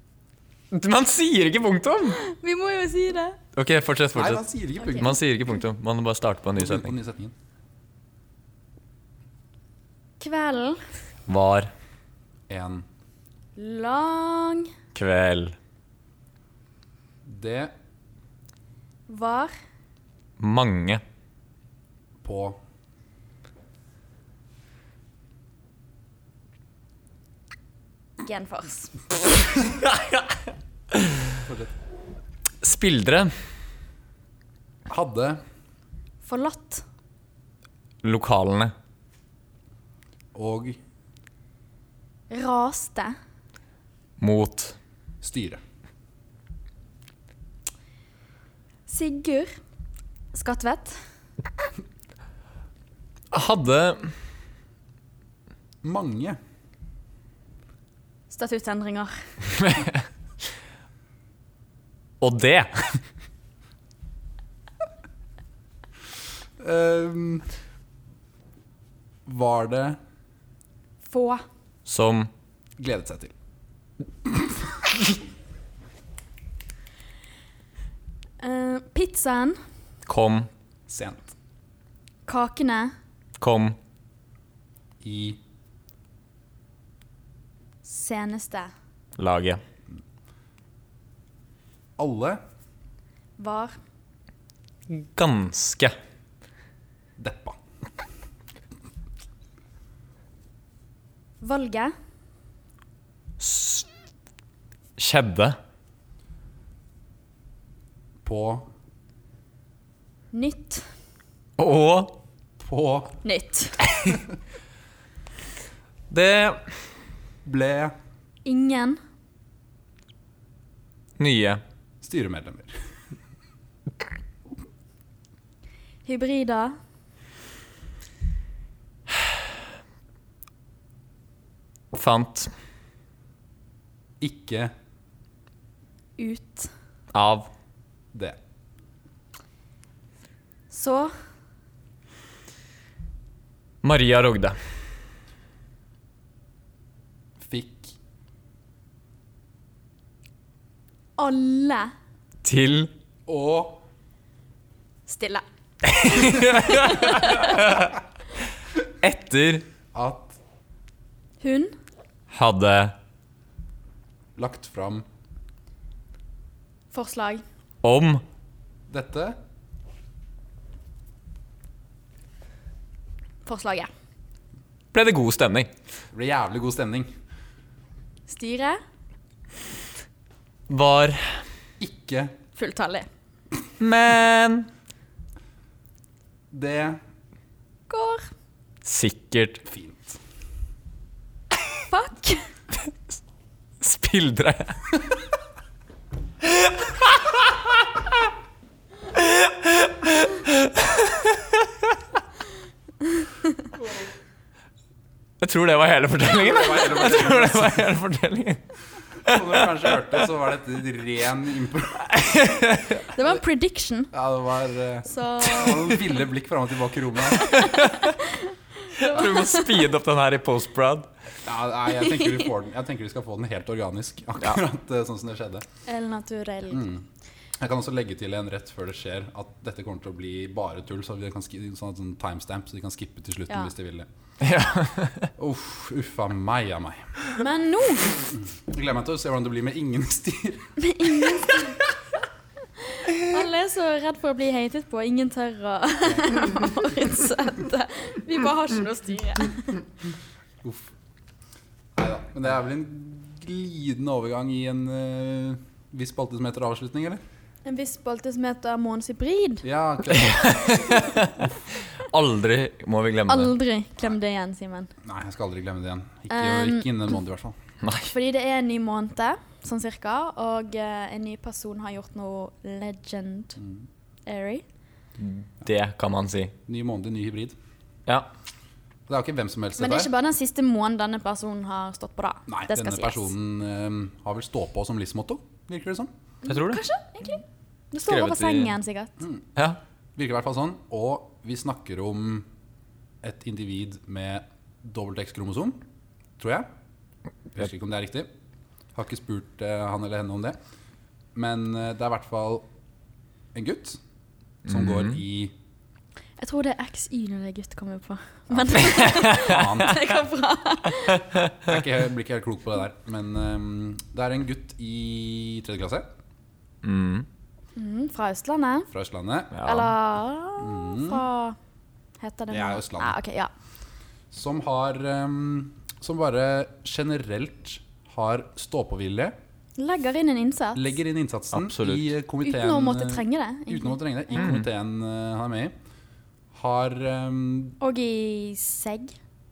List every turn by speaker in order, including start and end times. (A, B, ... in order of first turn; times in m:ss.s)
0:00.7-0:02.2 A
0:02.2-0:03.4 B
0:03.6-0:06.9 A
0:04.2-0:05.2 C
0:06.6-0:07.3 C
0:10.2-0:10.8 B
0:11.3-0:11.7 A
0:12.5-0:12.9 C
0:13.6-0:14.7 B
0:15.0-0:15.6 A
0:17.2-0:17.7 C
0:19.1-0:19.5 B
0:20.4-0:21.0 A
0:22.2-0:22.6 C
0:28.2-0:29.0 B
0:29.6-0:30.4 A
0:30.9-0:31.4 A
0:31.5-0:31.7 C
0:32.6-0:33.4 A
0:34.9-0:35.4 C
0:36.2-0:36.8 B
0:38.0-0:38.7 A
0:40.3-0:40.8 C
0:42.3-0:43.2 B
0:44.2-0:44.8 A
0:45.2-0:45.6 C
0:48.9-0:49.6 B
0:50.3-0:51.0 B
0:53.3-0:54.1 A
0:55.8-0:56.4 C
0:58.3-0:59.1 B
0:59.6-1:00.0 A
1:02.2-1:03.0 A
1:06.6-1:07.5 C
1:09.3-1:10.0 C
1:11.1-1:11.4 B
1:11.9-1:12.3 A
1:12.8-1:13.3 C
1:14.2-1:14.9 C
1:18.4-1:19.6 B
1:20.1-1:20.5 A
1:20.9-1:21.2 C
1:22.3-1:22.9 B
1:23.4-1:23.8 A
1:25.0-1:25.4 C
1:27.8-1:28.7 B
1:29.2-1:29.6 A
1:32.0-1:32.4 C
1:33.4-1:33.8 B
1:34.9-1:36.0 A
1:37.2-1:37.6 C
1:41.4-1:41.9 B
1:43.4-1:43.9 A
1:45.0-1:45.6 A
1:48.2-1:48.7 C
1:50.3-1:50.9 B
1:51.6-1:52.2 A
1:52.6-1:53.2 C
1:53.2-1:53.8 B
1:56.1-1:56.8 A
1:57.4-1:58.0 C
1:58.4-1:59.0 B
2:01.2-2:01.6 A
2:02.0-2:02.7 C
2:06.1-2:06.8 B
2:11.9-2:12.5 A
2:14.2-2:14.7 C
2:16.2-2:16.7 B
2:17.1-2:17.5 A
2:18.1-2:18.4 C
2:20.7-2:21.1 B
2:23.8-2:24.6 A
2:27.4-2:27.9 C
2:31.2-2:31.9 B
2:32.4-2:32.9 A
2:33.3-2:33.8 C
2:35.1-2:35.4 B
2:35.8-2:38.0 A
2:36.0-2:37.6 B
2:39.0-2:39.7 A
2:39.9-2:40.4 C
2:41.4-2:41.7 B
2:42.3-2:43.0 A
2:44.4-2:45.1 C
2:46.9-2:47.4 B
2:47.8-2:48.2 A
2:48.9-2:49.4 C
2:53.5-2:53.9 B
2:54.9-2:55.7 A
2:56.1-2:57.1 C
2:58.3-2:58.8 B
3:00.7-3:01.4 A
3:01.8-3:02.3 C
3:02.6-3:03.1 B
3:03.8-3:04.7 A
3:06.5-3:07.0 C
3:07.9-3:08.3 B
3:08.8-3:09.6 A
3:09.6-3:10.2 C
3:11.9-3:12.5 B
3:13.8-3:14.8 A
3:16.4-3:17.8 A
3:19.1-3:22.0 A
3:25.4-3:28.6 A
3:26.2-3:27.9 C
3:29.3-3:30.2 A
3:29.3-3:32.1 C
3:32.0-3:33.1 A
3:33.1-3:34.1 B
3:34.1-3:37.7 C
3:35.1-3:36.0 B
3:37.4-3:38.1 A
3:37.4-3:39.8 B
3:39.0-3:41.1 A
3:41.4-3:45.6 C
3:42.0-3:42.5 B
3:45.9-3:46.9 B
3:46.7-3:47.0 C
3:47.6-3:54.1 C
3:54.4-3:55.3 A
3:55.4-3:57.1 C
3:57.4-3:58.2 B
3:58.3-4:01.4 C
4:00.8-4:01.8 B
4:02.8-4:09.8 B
4:10.6-4:10.9 C
4:12.0-4:17.2 C
4:17.6-4:19.7 B
4:19.6-4:20.9 C
4:20.1-4:23.5 A
4:20.2-4:21.1 B
4:23.3-4:24.9 B
4:25.0-4:27.6 C
4:26.3-4:26.9 B
4:27.8-4:28.1 A
4:28.1-4:33.6 B
4:33.6-4:33.8 C
4:34.3-4:34.6 B
4:35.2-4:36.5 A
4:36.7-4:37.6 C
4:39.1-4:40.1 C
4:39.8-4:43.3 B
4:42.5-4:46.1 C
4:46.4-4:49.1 B
4:46.5-4:46.8 A
4:48.1-4:48.7 A
4:50.2-4:52.5 C
4:53.2-4:55.8 C
4:56.4-4:56.7 C
4:57.5-4:58.3 C
4:59.0-5:00.6 C
5:01.4-5:02.7 C
5:03.5-5:04.0 C
5:04.6-5:05.2 A
5:04.7-5:05.5 C
5:06.4-5:11.3 B
5:08.5-5:10.0 C
5:08.9-5:09.8 A
5:11.6-5:16.1 C
5:16.8-5:17.3 A
5:17.8-5:18.9 B
5:18.9-5:19.6 C
5:19.5-5:19.9 A
5:19.6-5:21.6 B
5:20.6-5:21.2 C
5:22.2-5:23.5 B
5:22.5-5:23.2 C
5:24.3-5:29.3 C
5:29.8-5:30.9 B
5:30.8-5:35.7 C
5:31.5-5:32.1 A
5:32.4-5:34.5 B
5:34.4-5:34.6 A
5:36.5-5:37.8 C
5:37.8-5:39.2 B